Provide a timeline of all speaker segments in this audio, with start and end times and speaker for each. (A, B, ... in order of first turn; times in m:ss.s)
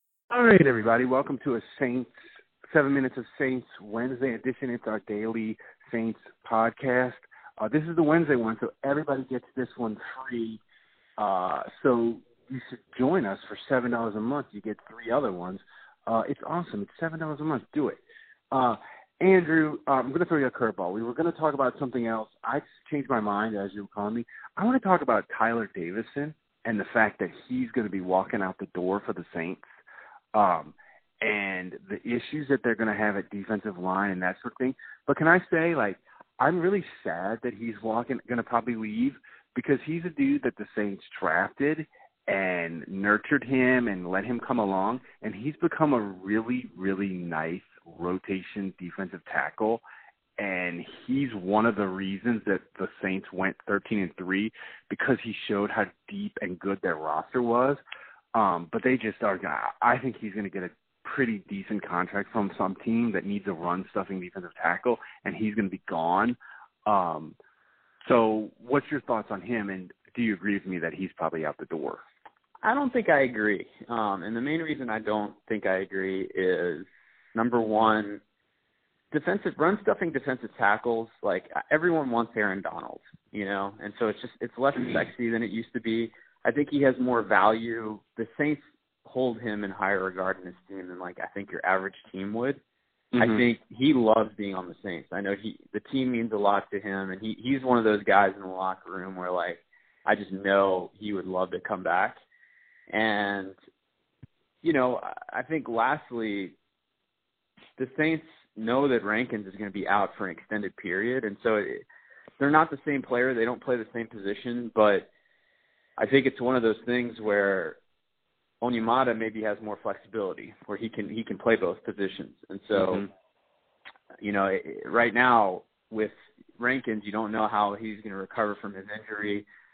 0:00.3-0:02.1 A
0:02.7-0:10.6 A
0:11.2-0:18.0 A
0:18.5-0:29.6 A
0:30.3-0:49.8 A
0:50.4-0:57.8 A
0:58.3-1:07.4 A
1:08.0-1:12.0 A
1:12.6-1:18.2 B
1:19.1-1:32.6 B
1:33.1-1:33.4 A
1:33.2-1:42.2 B
1:42.9-1:43.5 B
1:44.6-1:46.5 B
1:47.8-1:51.8 B
1:52.4-1:55.1 B
1:56.0-1:57.8 B
1:58.6-2:03.0 B
2:02.8-2:03.0 A
2:04.2-2:09.4 B